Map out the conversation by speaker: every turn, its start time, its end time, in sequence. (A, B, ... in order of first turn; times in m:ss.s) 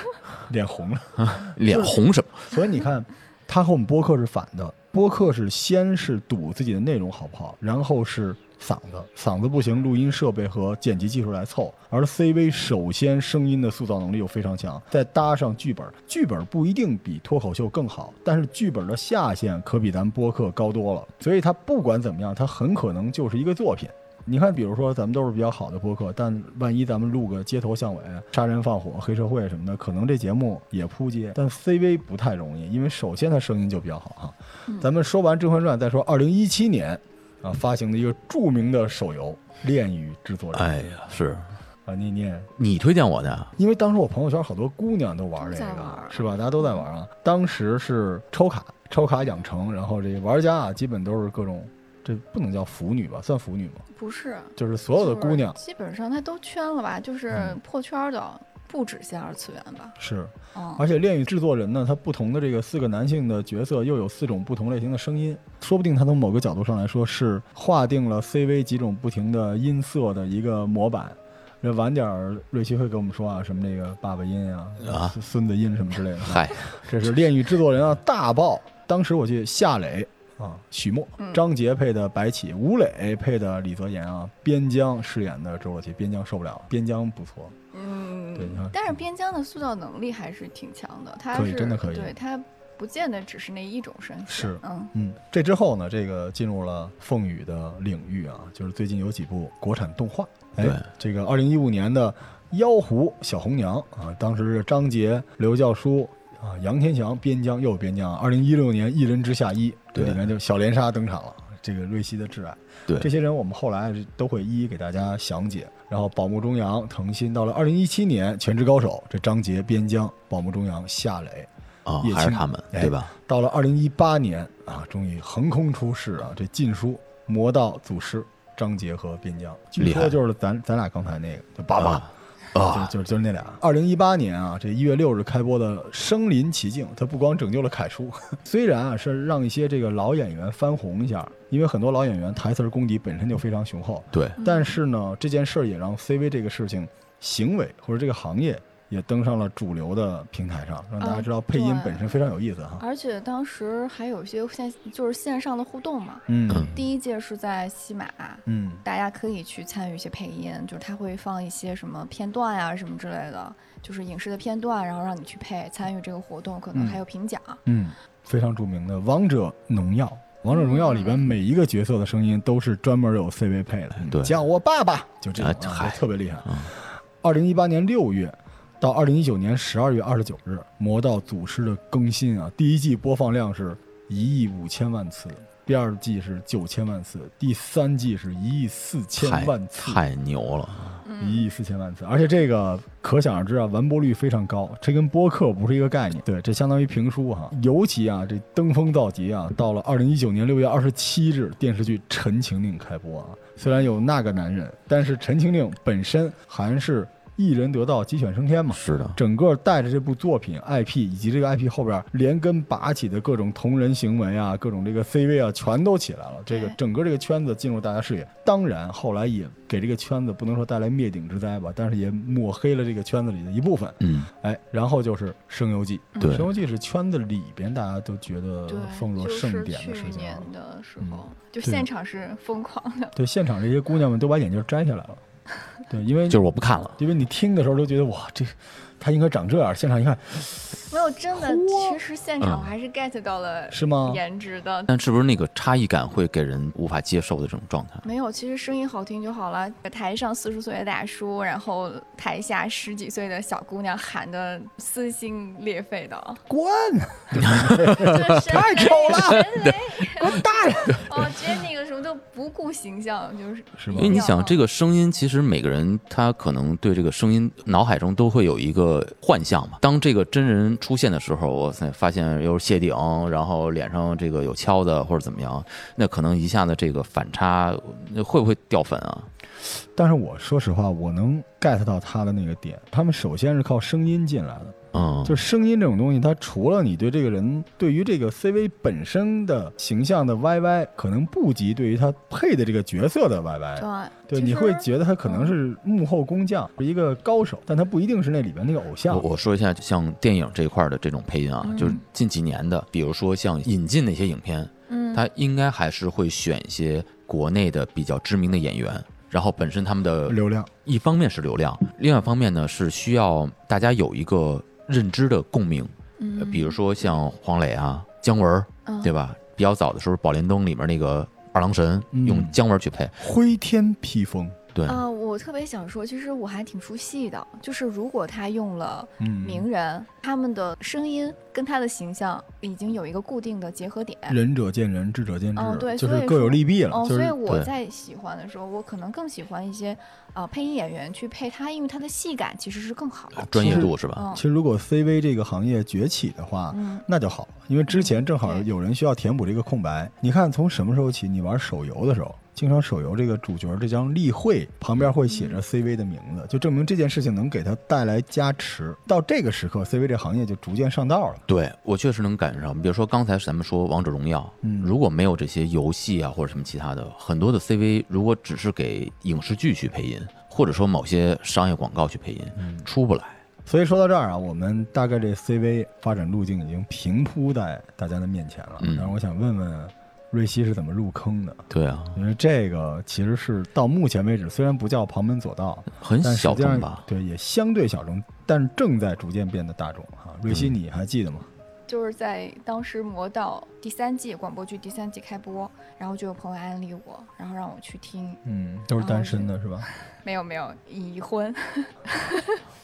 0:00.4-0:40.8 A
0:01.2-0:02.5 B
0:40.5-0:41.4 B
0:41.8-0:42.5 A
0:42.6-0:43.5 B
0:43.6-0:53.8 A
0:45.4-0:46.2 C
0:53.9-1:00.0 C
0:54.6-0:55.6 A
1:00.0-1:27.6 A
1:00.5-1:00.8 C
1:14.8-1:15.1 B
1:16.2-1:16.8 B
1:21.2-1:21.4 C
1:27.7-1:34.9 C
1:28.4-1:28.8 A
1:31.3-1:32.2 A
1:34.3-2:01.5 A
1:49.9-1:50.2 B
2:01.8-2:03.1 B
2:02.0-2:12.0 A
2:09.8-2:10.2 B
2:11.8-2:12.9 B
2:12.6-2:32.8 A
2:24.1-2:24.4 B
2:24.4-2:24.8 C
2:31.0-2:32.1 C
2:32.8-2:47.6 C
2:36.3-2:36.8 A
2:36.5-2:36.8 B
2:38.4-2:38.8 A
2:46.7-2:47.0 A
2:47.6-3:10.0 A
2:50.5-2:51.3 C
2:54.0-2:54.4 B
2:55.4-2:56.7 B
3:09.2-3:11.0 B
3:11.0-3:11.5 C
3:11.1-3:50.5 A
3:28.7-3:29.2 B
3:36.5-3:36.8 C
3:44.0-3:44.3 B
3:46.2-3:46.5 B
3:48.7-3:53.1 C
3:51.0-3:51.9 A
3:53.1-3:55.2 A
3:55.9-4:02.0 A
3:56.3-3:57.0 B
4:00.9-4:04.9 C
4:02.4-4:02.7 B
4:03.7-4:04.2 A
4:04.9-4:08.0 B
4:08.0-4:16.4 C
4:16.5-4:21.2 A
4:17.4-4:18.2 B
4:17.9-4:24.6 C
4:19.0-4:19.4 B
4:23.8-4:24.2 A
4:23.9-4:39.3 B
4:39.6-4:59.2 A
4:44.9-4:45.4 B
4:53.8-4:55.5 C
4:59.1-5:23.2 B
5:01.6-5:02.0 C
5:04.9-5:05.2 C
5:10.3-5:10.7 A
5:16.2-5:16.8 C
5:18.8-5:19.1 C
5:22.1-5:22.6 A
5:23.2-5:24.6 A
5:24.7-5:25.0 B
5:24.8-5:34.4 C
5:29.2-5:29.6 A
5:34.3-5:37.4 A
5:35.5-5:44.4 C
5:43.4-5:44.2 B
5:43.5-6:01.4 A
5:46.7-5:47.0 C
5:47.9-5:48.7 C
5:55.3-5:55.6 C
6:01.5-6:13.4 B
6:04.6-6:04.9 A
6:12.6-6:12.8 A
6:13.6-6:31.5 A
6:18.8-6:19.2 B
6:21.7-6:22.2 B
6:26.0-6:27.0 B
6:31.9-6:38.4 C
6:38.4-6:39.9 A
6:39.0-6:39.5 C
6:40.0-6:42.6 C